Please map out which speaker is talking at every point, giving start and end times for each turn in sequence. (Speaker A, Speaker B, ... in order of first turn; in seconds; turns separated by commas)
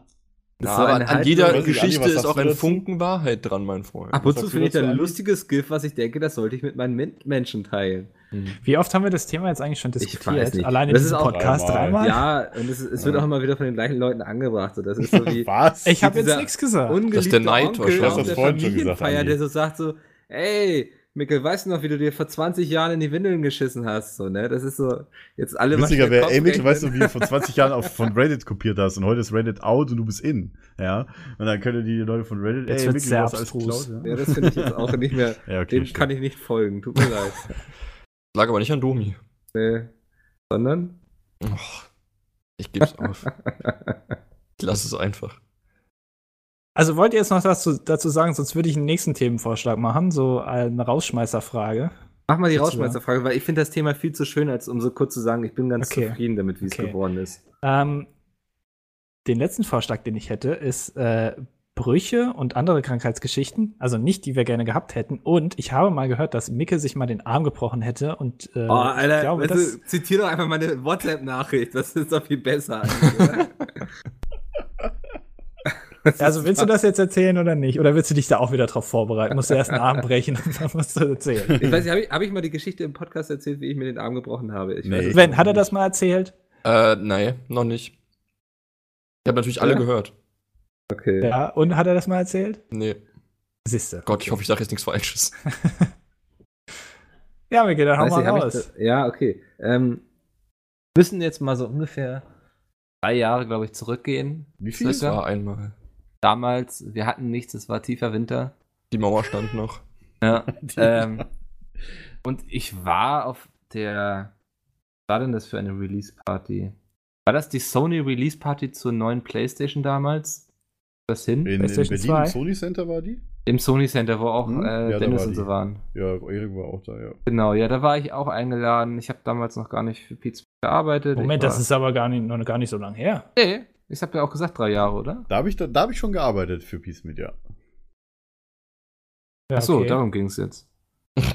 Speaker A: 0.6-1.7, Speaker B: 0.6-4.2, Speaker C: 1.4-2.8, Speaker A: 4.1-8.6, Speaker C: 4.1-5.2, Speaker D: 8.6-12.3, Speaker A: 10.0-27.9, Speaker C: 11.2-12.0, Speaker C: 13.0-13.3, Speaker C: 15.0-16.2, Speaker D: 15.8-17.0, Speaker B: 17.1-18.5, Speaker C: 17.9-19.4, Speaker C: 25.7-34.9, Speaker D: 32.7-33.9, Speaker A: 34.0-37.5, Speaker C: 35.4-36.1, Speaker B: 38.3-39.2, Speaker A: 39.5-39.9, Speaker A: 40.5-40.9, Speaker B: 41.4-41.9, Speaker B: 42.6-43.3, Speaker A: 43.2-43.9, Speaker B: 44.6-45.4, Speaker D: 46.8-51.9, Speaker A: 52.3-57.4, Speaker D: 52.5-53.0, Speaker D: 55.8-57.0, Speaker D: 57.6-58.1, Speaker D: 59.2-69.8, Speaker A: 68.7-73.9, Speaker A: 76.0-76.7, Speaker D: 76.2-81.7, Speaker A: 81.5-85.4, Speaker C: 84.8-85.7, Speaker D: 85.1-86.3, Speaker B: 86.6-87.9, Speaker B: 89.2-90.1, Speaker A: 90.9-91.3, Speaker D: 91.2-92.6, Speaker B: 92.7-93.0, Speaker D: 93.7-94.3, Speaker B: 94.0-95.4, Speaker D: 97.5-98.7, Speaker A: 98.0-100.0, Speaker A: 100.9-102.2, Speaker A: 103.0-105.2, Speaker C: 104.6-105.2, Speaker B: 104.8-105.7, Speaker A: 106.2-108.5, Speaker B: 108.9-109.8, Speaker A: 110.2-111.3, Speaker C: 110.5-111.2, Speaker A: 112.2-114.3, Speaker A: 115.1-116.7, Speaker A: 117.3-120.4, Speaker A: 121.1-121.5, Speaker C: 121.4-123.2, Speaker D: 121.6-122.4, Speaker A: 123.5-125.8, Speaker C: 124.4-127.2, Speaker A: 127.3-131.6, Speaker D: 131.2-133.3, Speaker A: 133.4-135.3, Speaker C: 135.3-137.4, Speaker D: 139.5-140.0, Speaker A: 139.6-140.6